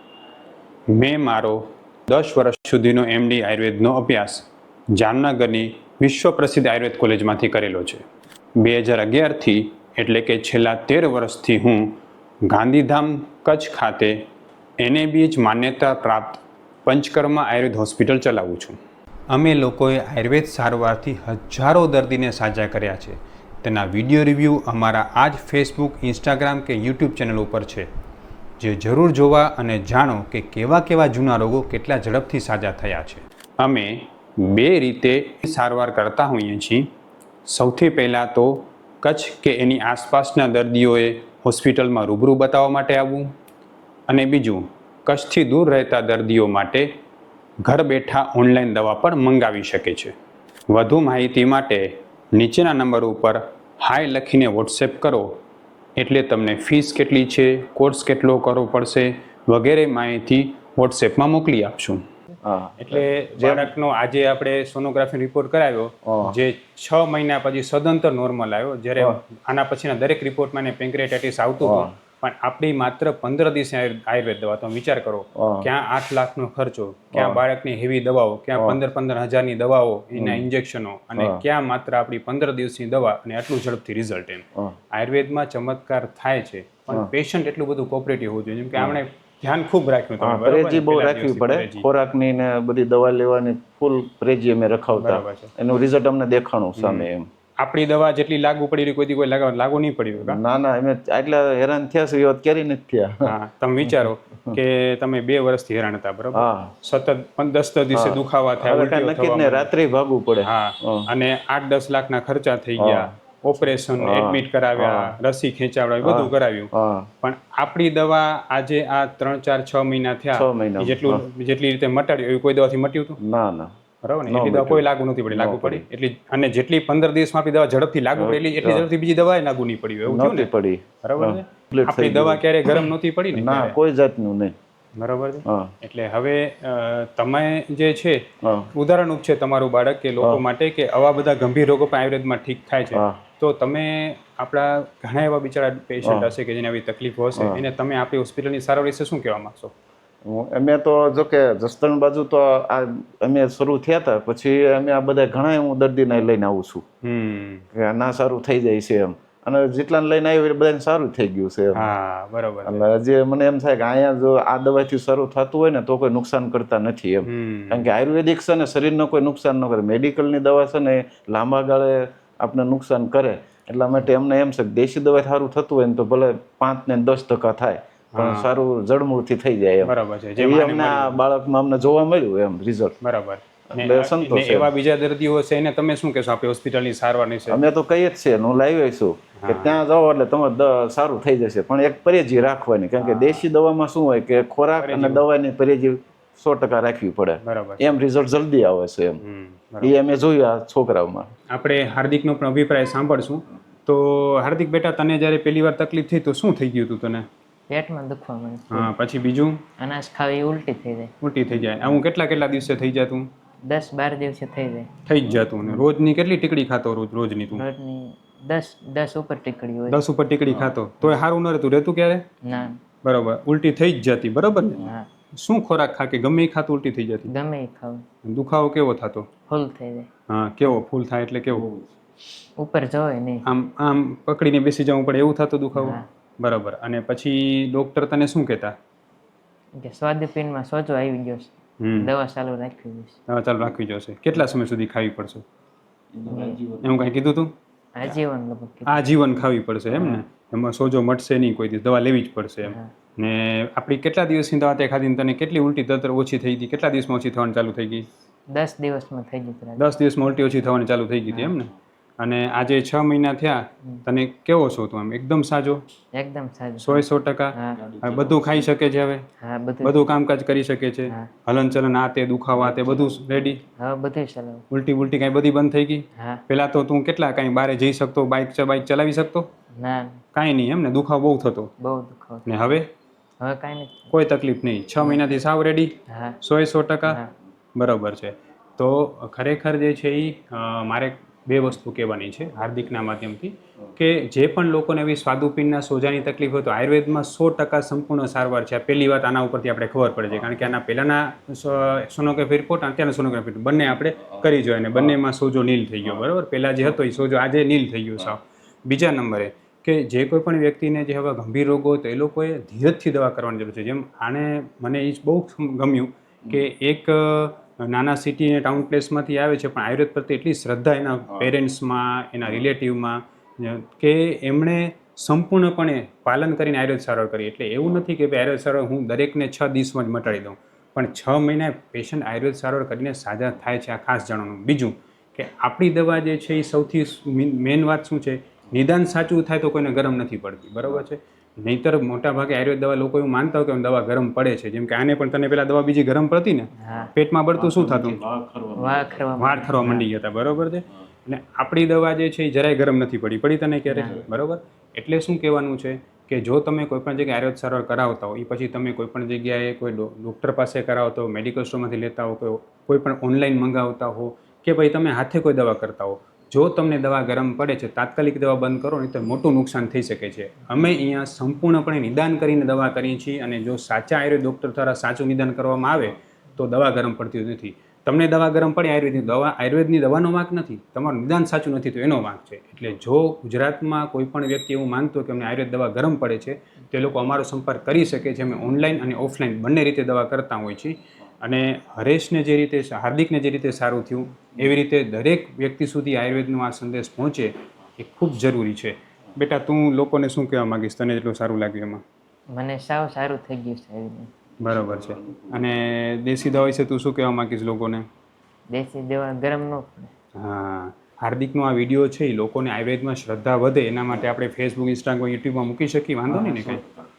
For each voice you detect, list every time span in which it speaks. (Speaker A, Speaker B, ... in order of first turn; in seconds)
Speaker A: 0.9-8.0, 8.6-14.2, 14.8-18.8, 19.3-27.9, 28.6-36.9, 37.5-43.3, 44.1-46.9, 47.6-50.1, 50.7-55.4, 56.0-62.0, 62.8-91.9, 95.0-95.5, 96.8-97.1, 97.6-100.4, 103.2-109.7, 110.4-116.7, 117.2-123.2, 124.0-130.5, 131.0-133.8, 135.0-138.2, 138.7-149.7, 157.0-157.7, 161.8-162.8, 167.2-167.9, 178.1-178.5, 179.8-181.2, 183.0-187.6, 189.4-189.8, 193.0-193.4, 194.8-195.2, 197.4-197.8, 199.2-199.9, 201.5-207.3, 208.7-209.6, 211.2-213.3, 215.1-217.7, 219.9-222.2, 223.0-227.3, 228.2-229.3, 230.3-231.7, 233.5-238.8, 241.8-242.1, 243.3-245.4, 246.8-247.5, 248.9-258.1, 259.8-265.8, 266.8-269.2, 269.8-273.6, 274.7-279.5, 280.3-281.7, 282.5-282.9, 284.1-287.2, 287.8-348.2, 349.4-402.0, 404.6-408.1, 410.4-416.8
Speaker B: 62.4-63.7, 66.0-66.4, 71.6-71.9, 75.4-75.7, 77.1-77.4, 80.2-80.5, 81.2-81.4, 90.2-97.3, 100.2-103.3, 103.8-104.6, 106.3-106.7, 107.9-111.1, 112.8-113.1, 114.0-115.2, 116.0-117.1, 120.3-121.2, 123.2-123.7, 124.3-125.8, 128.2-128.9, 130.1-134.5, 135.5-135.7, 138.4-138.7, 142.9-143.2, 146.0-146.3, 147.3-147.6, 150.3-156.8, 157.7-161.9, 162.7-183.0, 183.7-184.7, 187.5-199.2, 199.8-201.3, 246.2-247.0, 268.1-268.4, 347.5-349.3
Speaker C: 207.7-208.9, 209.8-211.1, 213.7-214.9, 217.5-220.0, 222.4-222.8, 224.7-225.1, 227.3-228.1, 229.5-230.1, 232.6-233.5, 235.7-236.1, 239.8-243.2, 246.3-246.6, 248.0-249.1, 249.9-250.2, 252.6-252.9, 258.5-259.9, 261.3-261.5, 266.1-267.9, 269.4-270.1, 272.5-274.7, 276.2-276.4, 279.8-280.2, 281.8-282.8, 283.4-284.1, 285.0-285.4, 286.1-286.4, 287.1-287.3, 346.8-347.1, 348.8-350.1, 353.9-354.2, 402.5-404.3, 408.7-410.1, 416.3-416.8